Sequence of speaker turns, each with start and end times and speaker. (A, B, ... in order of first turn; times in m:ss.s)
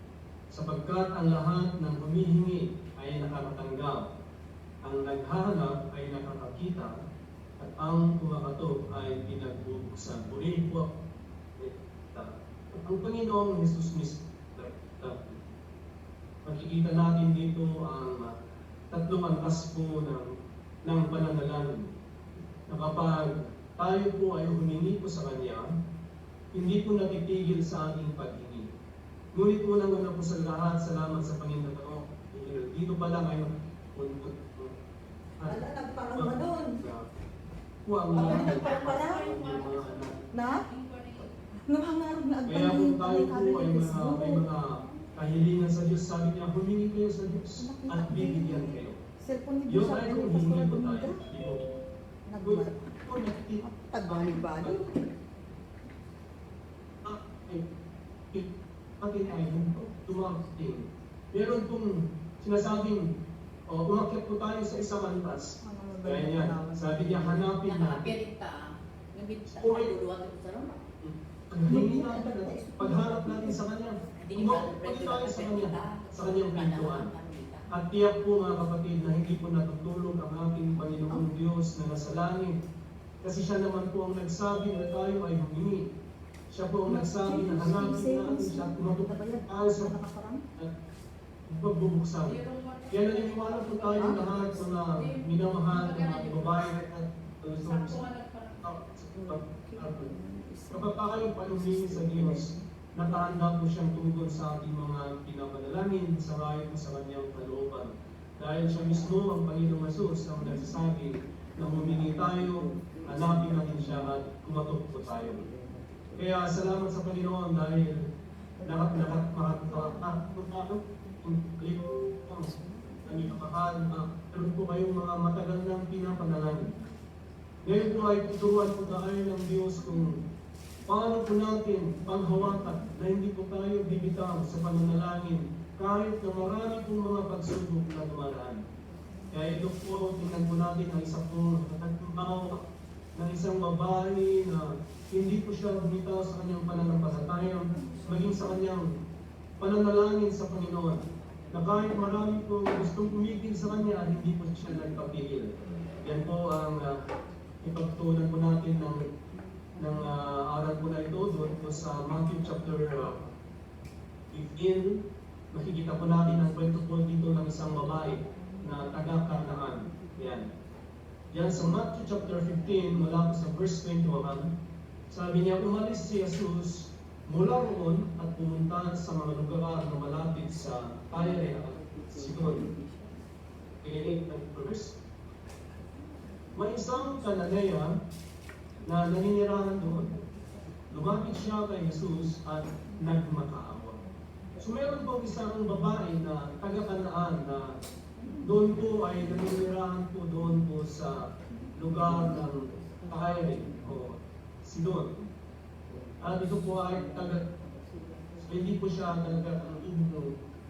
0:00.5-0:04.1 A
0:04.8-0:06.9 A
0:07.6-0:10.9 A
0:11.6-0:15.4 A
0:16.4-0:18.3 A
0:18.9-0:20.3 A
0:20.8-0:21.9 A
0:22.7-0:25.6 A
0:26.5-0:28.7 A
0:29.3-0:34.8 A
0:35.4-0:37.0 A
0:35.5-0:36.7 B
0:37.8-0:40.2 A
0:38.1-0:41.3 C
0:38.2-0:39.2 B
0:40.3-0:40.6 B
0:41.7-0:44.5 B
0:42.4-0:49.0 A
0:47.6-0:51.2 B
0:49.7-0:51.6 A
0:52.3-0:52.9 B
0:52.4-0:54.8 A
0:53.6-0:54.8 B
0:57.0-0:57.7 A
0:58.3-1:03.1 A
0:59.4-1:00.5 B
1:03.7-1:08.2 A
1:05.6-1:07.5 B
1:07.5-1:10.8 C
1:09.5-1:09.9 A
1:11.0-1:17.1 A
1:11.7-1:13.6 B
1:14.1-1:17.7 C
1:17.7-1:22.6 A
1:23.2-1:25.9 A
1:26.5-1:30.0 A
1:26.9-1:30.4 B
1:31.5-1:38.0 A
1:32.2-1:36.8 C
1:34.0-1:34.6 B
1:37.6-1:38.7 C
1:38.6-1:40.1 A
1:39.1-1:43.4 B
1:40.7-1:55.4 A
1:50.4-1:50.8 B
1:51.5-1:54.2 B
1:54.9-1:56.5 B
1:56.2-1:58.0 A
1:58.6-2:01.5 B
1:58.6-2:02.5 A
2:02.4-2:03.6 B
2:03.0-2:06.8 A
2:07.6-2:10.2 A
2:07.8-2:09.1 B
2:09.9-2:10.1 B
2:10.8-2:18.6 A
2:11.9-2:13.0 B
2:19.0-2:20.4 B
2:19.3-2:22.6 A
2:23.2-2:28.9 A
2:26.9-2:28.7 B
2:29.6-2:37.1 A
2:31.6-2:34.0 B
2:34.6-2:35.0 B
2:35.6-2:36.0 B
2:37.6-2:37.9 B
2:37.6-2:39.0 A
2:38.9-2:43.3 B
2:39.8-2:43.3 A
2:44.3-2:50.5 A
2:46.0-2:50.6 B
2:51.3-2:54.5 A
2:51.5-2:53.1 B
2:55.1-3:02.7 A
3:01.1-3:03.3 B
3:03.8-3:05.0 A
3:05.8-3:07.7 B
3:06.6-3:08.0 A
3:08.8-3:10.1 A
3:08.9-3:10.6 B
3:10.9-3:14.0 A
3:14.1-3:15.1 B
3:14.6-3:17.8 A
3:18.0-3:19.6 B
3:18.4-3:25.2 A
3:21.5-3:24.0 B
3:25.9-3:29.9 B
3:26.2-3:27.4 A
3:28.4-3:30.4 A